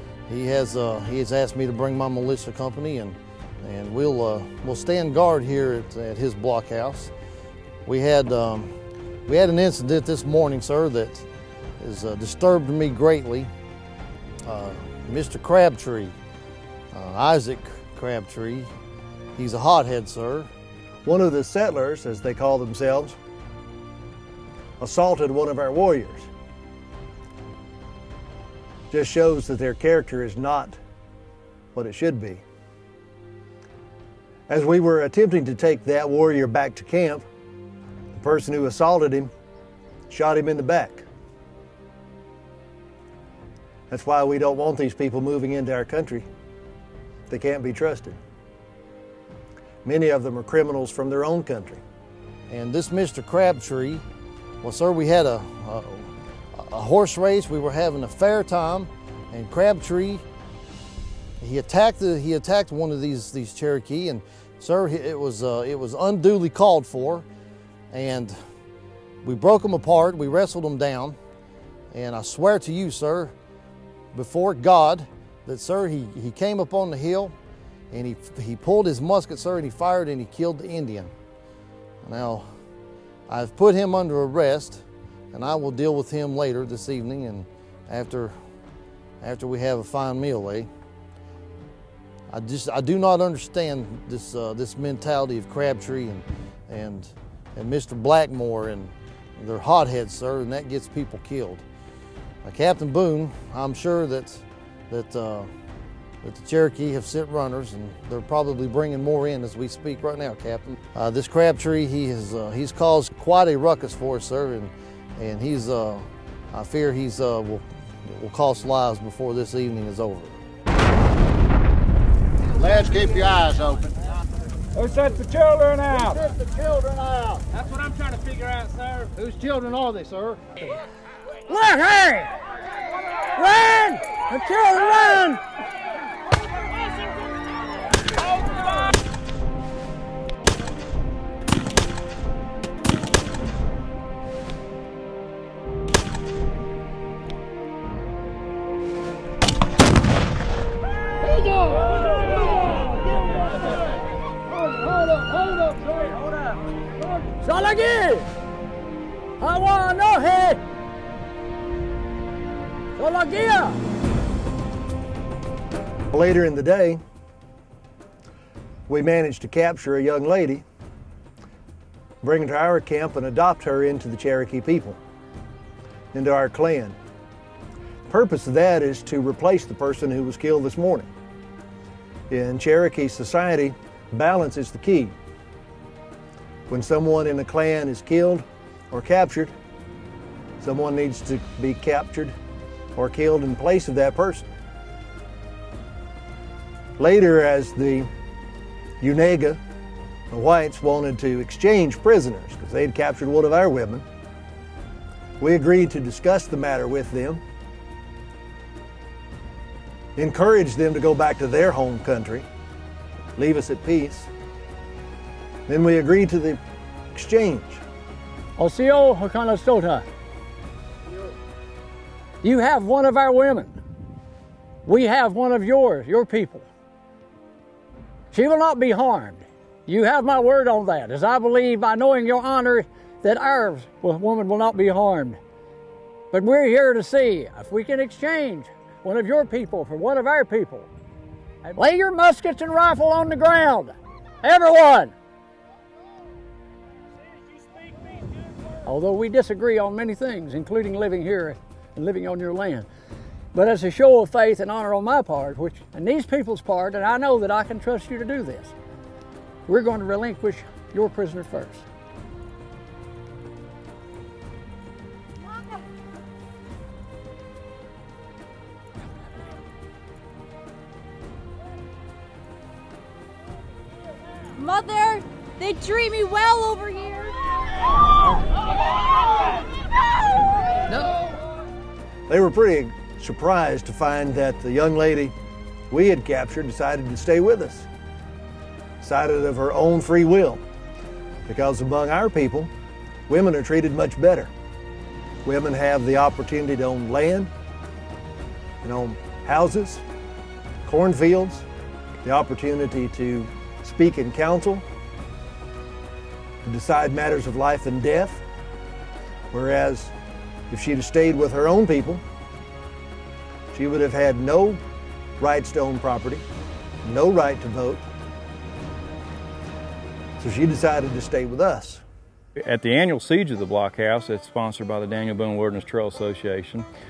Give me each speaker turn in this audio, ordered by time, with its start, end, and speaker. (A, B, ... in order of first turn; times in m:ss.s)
0:00.3-0:07.1 A
0:07.8-0:08.7 A
0:09.3-0:11.2 A
0:11.8-0:13.5 A
0:14.4-0:16.2 A
0:16.9-0:18.7 A
0:19.4-0:20.5 A
0:21.0-0:23.2 B
0:24.8-0:26.3 B
0:28.9-0:30.8 B
0:31.7-0:32.4 B
0:34.5-0:37.2 B
0:38.1-0:39.3 B
0:40.1-0:41.0 B
0:43.9-0:46.2 B
0:47.3-0:48.2 B
0:49.8-0:51.8 B
0:52.5-0:54.0 A
0:54.6-1:00.2 A
1:01.4-1:07.2 A
1:07.9-1:08.4 A
1:09.2-1:11.2 A
1:11.9-1:13.3 A
1:14.1-1:17.3 A
1:17.9-1:21.1 A
1:22.0-1:22.5 A
1:23.3-1:28.4 A
1:29.2-1:30.7 A
1:32.3-1:41.6 A
1:42.4-1:45.5 A
1:46.2-2:00.4 A
2:02.6-2:03.9 C
2:04.8-2:05.6 D
2:06.3-2:07.4 C
2:07.6-2:09.1 D
2:09.1-2:10.4 C
2:11.5-2:12.3 E
2:13.4-2:15.4 E
2:37.4-2:38.3 E
2:39.4-2:40.6 E
2:43.0-2:43.8 E
2:46.1-2:47.0 B
2:48.9-2:50.6 B
2:52.2-2:55.0 B
2:56.1-2:57.0 B
2:58.1-3:01.1 B
3:02.3-3:05.2 B
3:06.7-3:09.5 B
3:10.6-3:12.3 B
3:12.9-3:14.5 B
3:17.0-3:18.1 B
3:19.0-3:19.6 B
3:20.3-3:24.0 B
3:25.4-3:27.4 B
3:30.2-3:32.4 B
3:33.4-3:34.3 B
3:35.7-3:36.6 B
3:37.1-3:37.8 B
3:38.6-3:40.0 E
3:42.4-3:43.8 E
3:44.8-3:46.7 E
3:48.3-3:55.4 E
3:56.3-4:00.9 E
4:01.7-4:05.1 E
4:08.8-4:12.9 E
4:13.5-4:18.7 E
4:19.7-4:21.8 E
4:34.6-4:37.3 F
4:42.3-4:45.3 B
4:45.9-4:47.9 B
4:49.0-4:50.6 B
4:51.5-4:52.7 B
4:53.3-4:54.5 B
4:55.4-4:57.5 B
4:58.8-5:00.0 B
5:00.8-5:01.6 B
5:02.2-5:04.8 B
5:06.6-5:08.4 B
5:09.5-5:10.1 B
5:10.7-5:12.2 B
5:13.7-5:14.8 B
5:15.4-5:16.4 B
5:17.0-5:18.0 B
5:20.4-5:22.0 B
5:22.7-5:26.8 G